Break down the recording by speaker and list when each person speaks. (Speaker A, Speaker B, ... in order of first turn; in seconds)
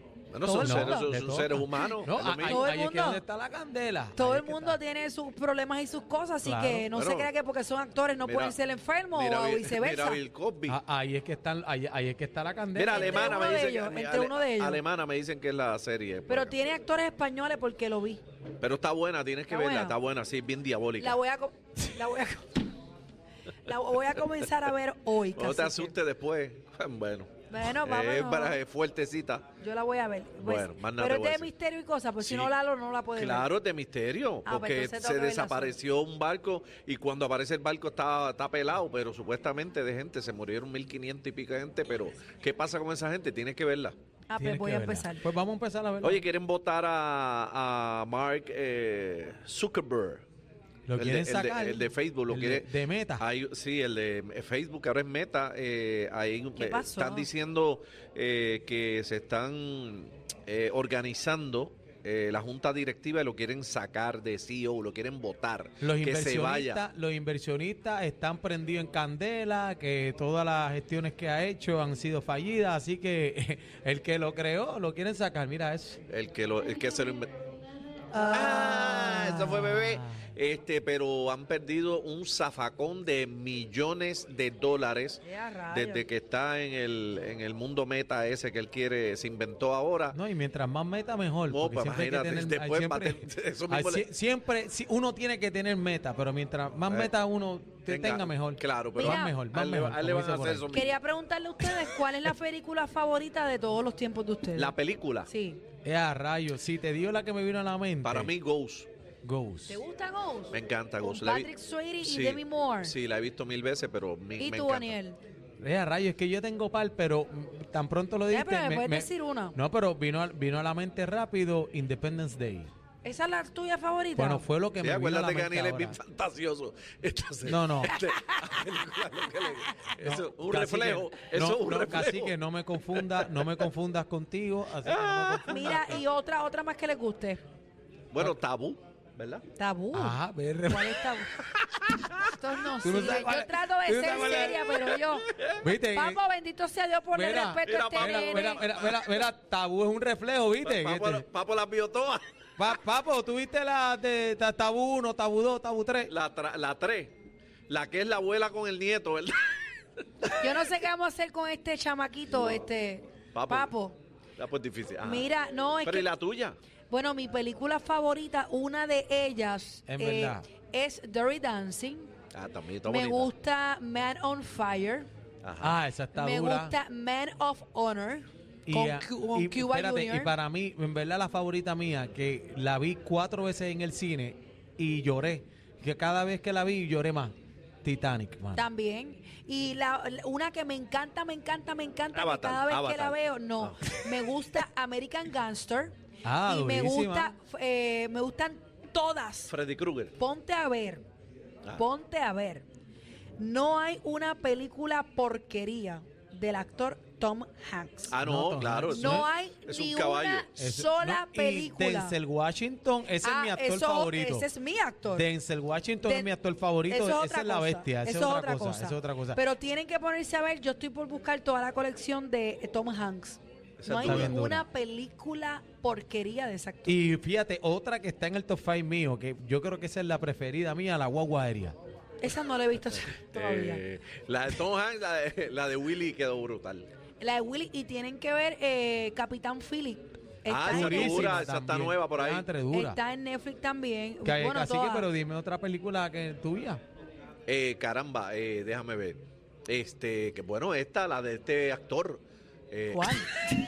Speaker A: 0.3-2.7, 6.9-7.3, 8.2-8.6, 9.1-10.8, 12.8-16.6, 18.6-21.2, 25.3-29.5, 30.4-31.5, 32.2-32.5, 33.2-43.9, 46.0-50.2, 51.0-66.8, 76.1-77.3, 78.1-90.2, 91.5-94.0, 97.9-100.9, 104.5-105.3, 108.0-108.9, 110.5-111.5, 112.0-114.9, 124.8-132.3, 132.9-133.6, 134.8-136.0, 138.1-139.4, 144.9-145.6, 147.6-149.3, 150.6-152.7, 156.1-157.1, 157.7-159.7, 160.2-160.6, 163.3-163.7, 164.4-165.3, 165.8-166.6, 172.3-173.3, 175.4-175.8, 192.1-194.0, 199.5-200.1, 208.1-210.6, 223.8-224.4, 233.2-236.9, 240.5-242.5, 247.5-253.3
Speaker B: 0.4-1.1, 2.4-3.2, 4.2-10.2, 12.9-14.8, 16.3-18.2, 19.5-20.0, 21.0-22.5, 23.6-25.9, 27.5-28.6, 29.6-33.5, 34.4-35.8, 44.3-45.2, 56.6-57.3, 85.2-86.0, 99.0-99.4, 100.7-104.8, 105.3-105.6, 109.7-112.9, 114.4-115.2, 118.3-119.6, 123.0-124.4, 127.8-128.4, 135.5-137.4, 139.6-141.3, 142.2-145.3, 145.9-148.6, 160.4-164.0, 165.0-166.1, 166.9-172.1, 172.9-175.1, 176.1-180.3, 188.6-199.5, 200.2-201.0, 201.8-202.6, 203.4-208.2, 208.9-212.2, 213.2-215.3, 216.1-216.3, 216.9-227.0, 232.2-233.8, 237.2-241.4, 242.7-245.1, 252.9-253.5
Speaker C: 0.5-4.8, 6.4-6.9, 10.7-13.6, 44.4-46.2, 50.9-53.2, 65.8-76.0, 78.1-80.2, 90.1-100.8, 105.8-108.3, 109.2-109.8, 115.6-122.7, 124.2-126.0, 127.4-128.0, 130.0-136.0, 139.9-141.2, 142.8-144.8, 145.6-146.2, 147.1-151.2, 152.6-156.1, 169.9-170.4, 175.6-176.7, 178.7-188.6, 196.2-197.3, 208.2-209.3, 210.6-214.5, 215.1-219.4, 223.9-224.6, 226.9-231.8, 240.6-243.0, 244.2-246.8